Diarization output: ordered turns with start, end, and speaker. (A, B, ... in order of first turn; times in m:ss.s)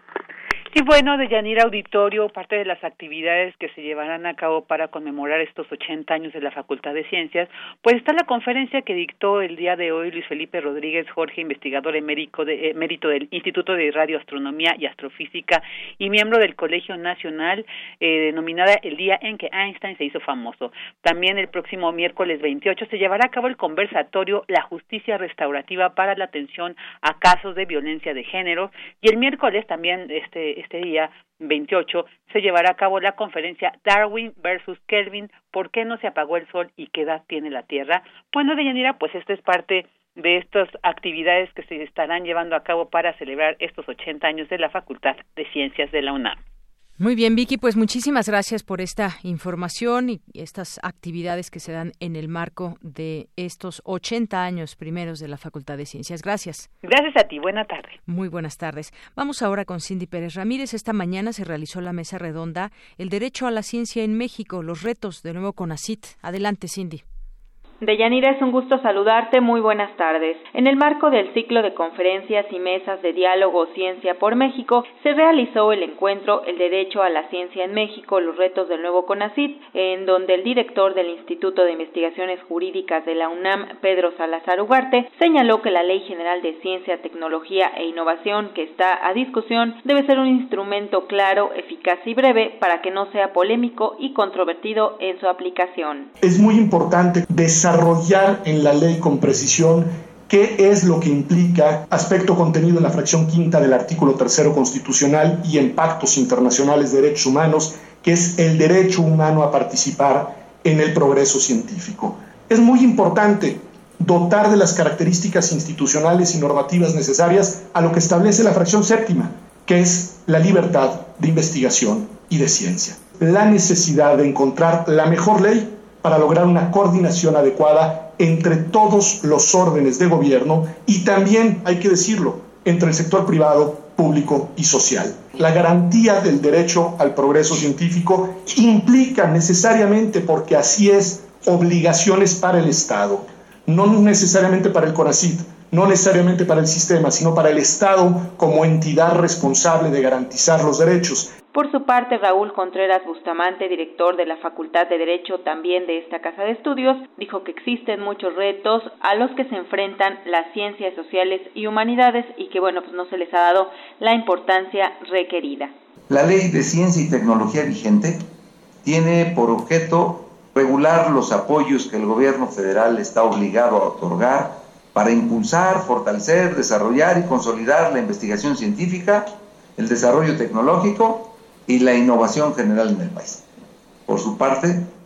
0:00.7-0:46.4 A
0:47.0-0:56.7 B
0:56.8-0:58.0 A
0:58.1-1:07.0 B
1:07.8-1:36.1 C
1:36.2-2:31.3 D
2:31.5-2:45.7 C
2:46.1-2:48.2 E
2:48.8-3:03.4 E
3:04.1-3:04.9 E